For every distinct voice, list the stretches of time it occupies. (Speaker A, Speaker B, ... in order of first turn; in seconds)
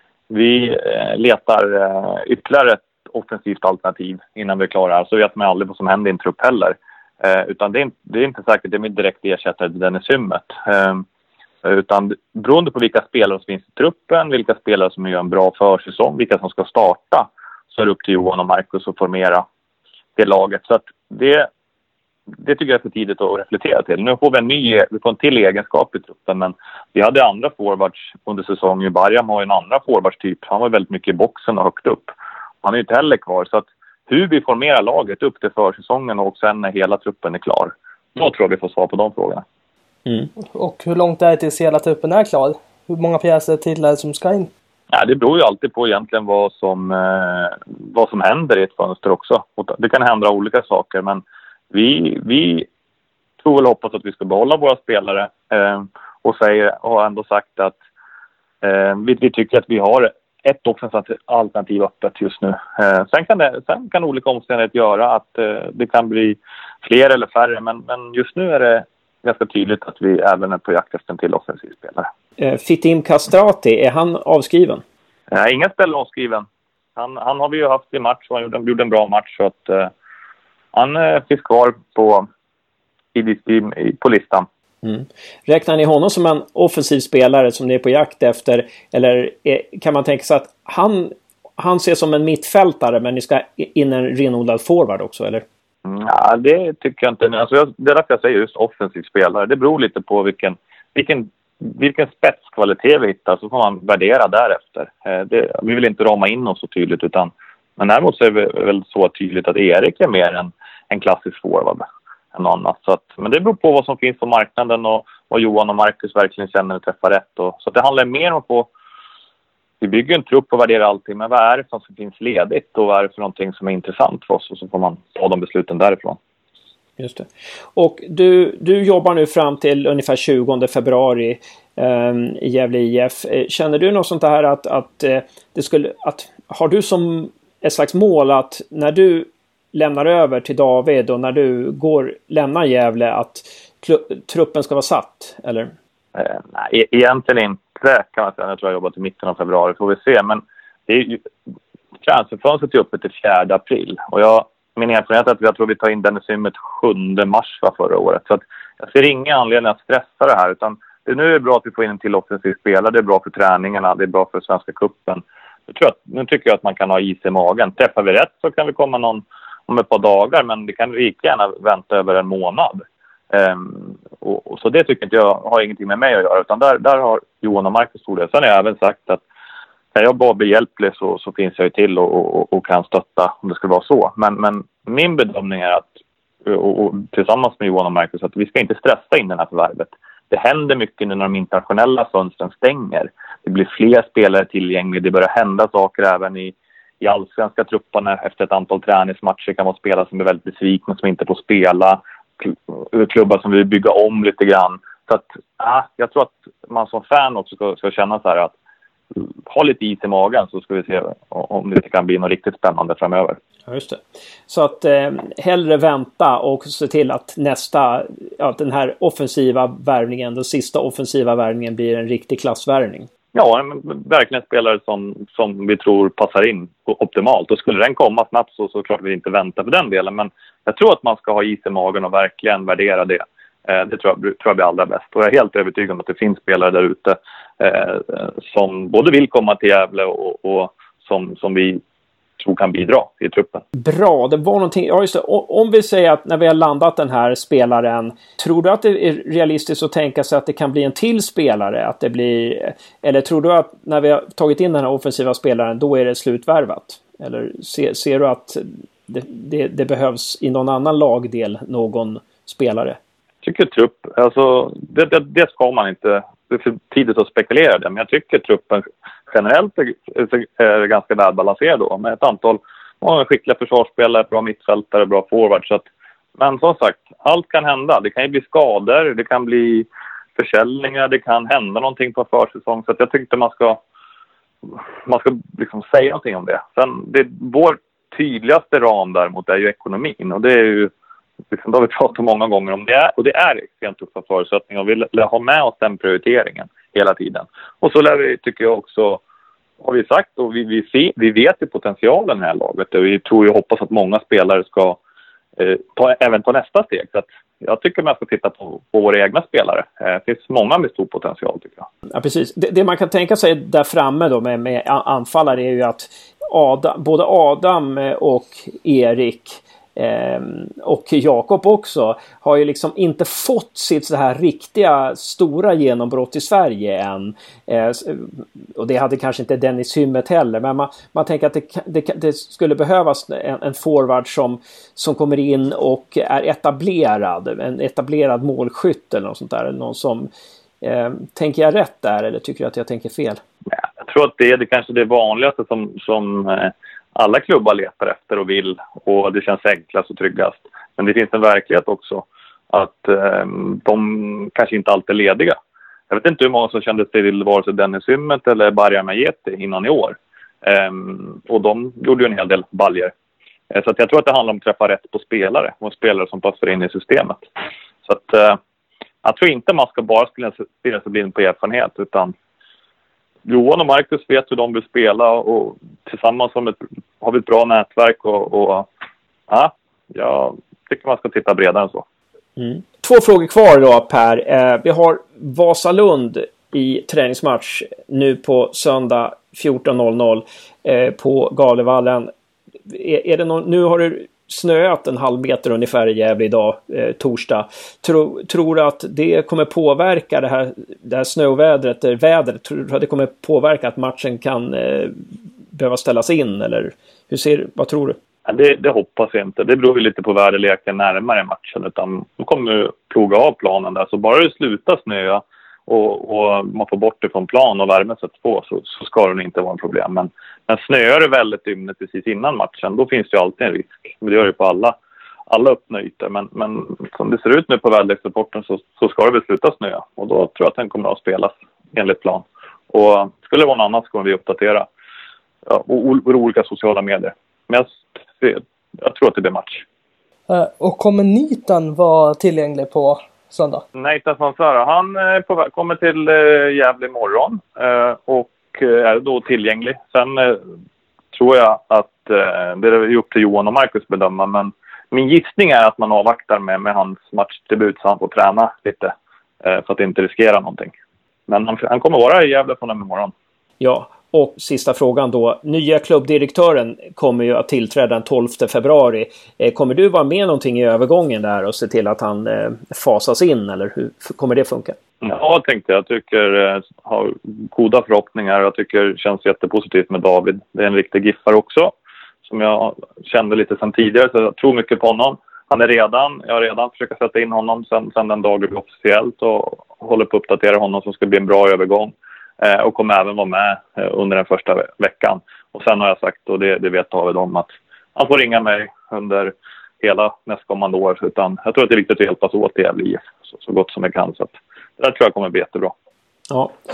Speaker A: 0.3-11.1, 11.6-19.4, 20.2-21.5, 22.4-39.4, 44.9-52.7, 53.4-57.8, 58.6-72.1, 75.3-79.9, 80.7-82.3, 83.2-84.5, 95.9-118.7, 119.8-126.2, 146.2-151.3, 152.0-179.2, 179.9-185.9, 186.5-208.5, 209.2-213.4, 223.3-241.8, 242.4-243.6, 263.4-275.9, 276.4-283.8, 285.0-290.9, 291.5-299.2, 299.8-305.0, 305.6-311.9, 343.7-355.6, 356.1-363.1, 363.7-367.5, 368.1-368.6, 369.2-372.3, 373.5-378.9, 379.5-382.1, 408.5-425.0, 425.5-434.9, 435.7-439.8, 443.9-450.6, 451.3-460.9, 461.5-463.3, 475.2-481.9, 482.4-505.9
Speaker B: 40.1-40.3, 72.4-74.8, 84.8-95.5, 127.0-145.7, 213.7-223.1, 243.8-263.0, 312.1-340.3, 340.8-343.4, 382.6-392.3, 392.9-405.2, 405.7-408.2, 463.8-475.0, 506.5-506.8
Speaker C: 40.4-44.5, 440.5-443.8